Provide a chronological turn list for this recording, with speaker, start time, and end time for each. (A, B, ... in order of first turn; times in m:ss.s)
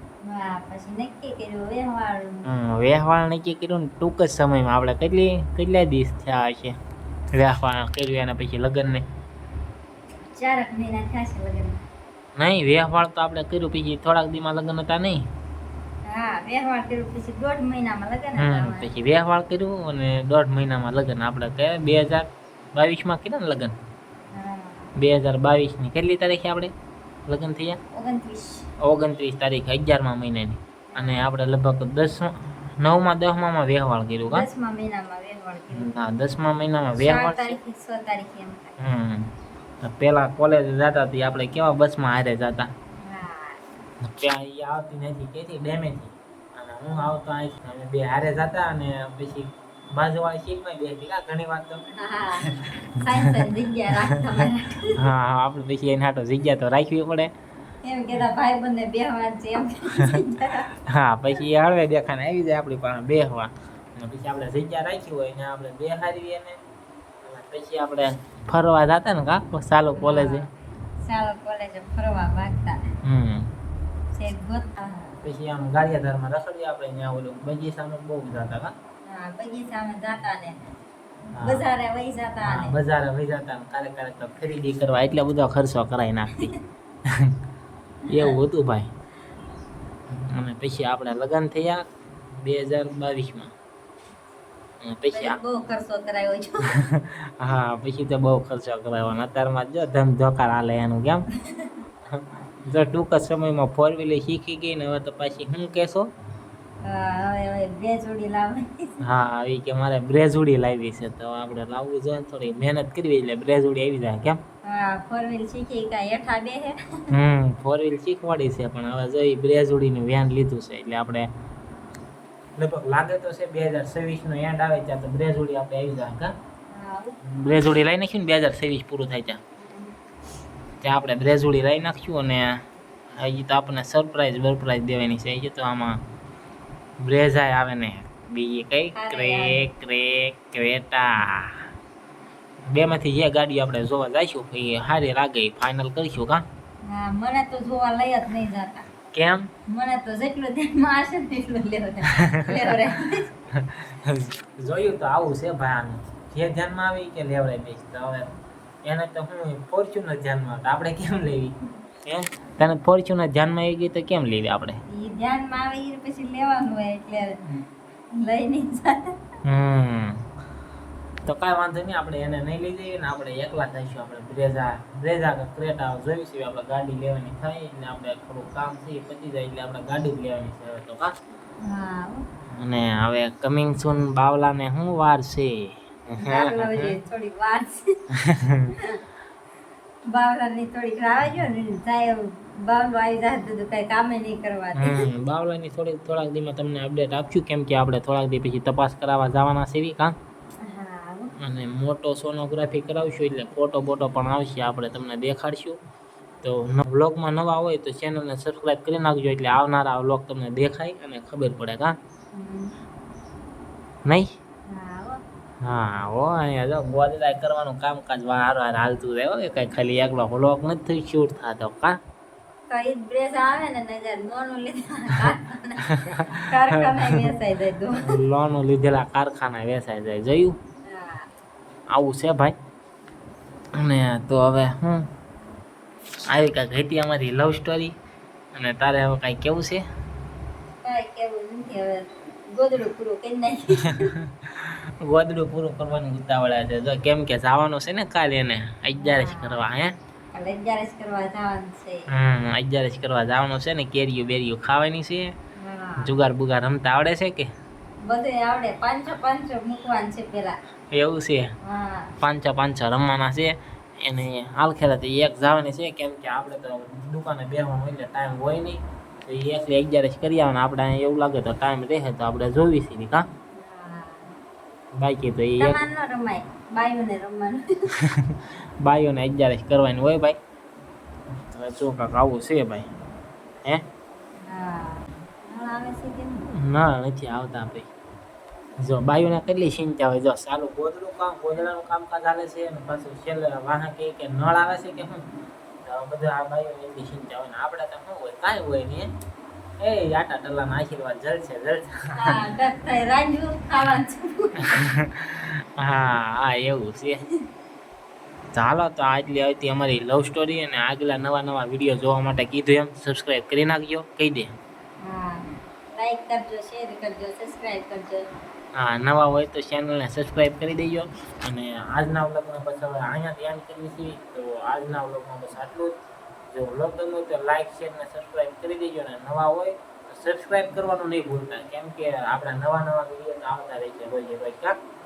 0:00.2-0:02.5 A
0:02.4-0:06.7 B
0:07.3-0:09.0 B
0:10.3-0:11.8 A
0:12.4-0:15.2 B
0:16.0-0:18.9 A
0:18.4-0:23.7 B
0:24.3-0:24.9 A
0:25.0-0:26.7 B
0:27.3-0:27.8 B
0:27.9-0:28.7 A
0:28.8-0:34.4 B
0:31.0-0:31.2 A
0:34.3-0:35.9 A
0:35.7-0:37.6 B
0:37.0-0:38.7 A
0:38.8-0:39.3 B
0:39.8-0:42.7 B
0:43.0-0:43.6 A
0:44.0-0:51.8 B
0:51.9-0:55.0 A
0:55.0-0:57.3 B
0:57.8-1:00.7 A
1:00.8-1:06.6 B
1:07.2-1:10.5 B
1:10.0-1:10.5 A
1:11.0-1:12.8 A
1:13.0-1:13.5 B
1:14.1-1:15.2 A
1:15.2-1:18.7 B
1:19.1-1:20.6 A
1:21.4-1:21.6 B
1:21.4-1:22.7 A
1:22.5-1:26.5 B
1:27.1-1:27.3 B
1:28.1-1:28.9 B
1:30.1-1:31.8 B
1:32.4-1:33.5 B
1:34.8-1:35.4 B
1:35.1-1:36.8 A
1:36.8-1:41.3 B
1:41.4-1:41.8 A
1:42.1-1:46.1 B
1:46.8-1:49.0 A
1:49.0-1:54.4 B
1:54.6-1:56.8 A
1:57.1-2:01.3 B
2:02.6-2:06.3 B
2:06.7-2:07.2 A
2:07.3-2:09.4 B
2:09.6-2:10.0 A
2:10.8-2:12.5 B
2:13.2-2:16.0 B
2:17.0-2:21.6 B
2:19.0-2:19.6 A
2:22.7-2:26.4 B
2:26.8-2:28.8 A
2:29.1-2:29.5 B
2:29.7-2:33.3 A
2:32.2-2:32.6 B
2:33.5-2:38.3 B
2:38.8-2:44.8 B
2:44.9-2:47.4 A
2:48.2-2:49.1 A
2:49.4-2:50.2 B
2:51.2-3:01.1 B
3:01.6-3:02.2 A
3:02.5-3:06.9 B
3:06.2-3:07.8 A
3:08.2-3:08.7 B
3:10.1-3:15.0 A
3:14.8-3:20.2 B
3:20.6-3:21.3 A
3:21.4-3:25.8 B
3:26.4-3:32.0 B
3:32.3-3:32.7 A
3:34.7-3:35.2 A
3:35.6-3:42.0 B
3:42.7-3:48.2 A
3:45.8-3:47.2 B
3:48.0-3:50.6 B
3:50.8-3:51.3 A
3:51.9-3:52.5 B
3:53.7-3:55.1 B
3:56.3-3:57.9 B
3:58.5-3:59.8 B
4:00.8-4:04.1 A
4:03.9-4:09.9 B
4:09.0-4:09.7 A
4:10.3-4:12.1 A
4:12.1-4:15.3 B
4:15.6-4:16.1 A
4:16.0-4:17.5 B
4:18.0-4:20.6 A
4:20.9-4:21.5 B
4:21.6-4:22.1 A
4:22.2-4:33.2 B
4:33.5-4:34.4 A
4:34.9-4:35.8 B
4:35.6-4:37.6 A
4:38.0-4:40.4 B
4:41.5-4:42.9 B
4:44.4-4:46.5 A
4:46.5-4:47.9 B
4:48.8-4:55.2 B
4:55.8-4:59.1 B
4:59.8-5:02.4 B
5:02.1-5:04.8 A
5:04.9-5:07.3 B
5:08.5-5:14.5 B
5:15.0-5:18.2 A
5:18.8-5:25.9 B
5:26.5-5:34.8 B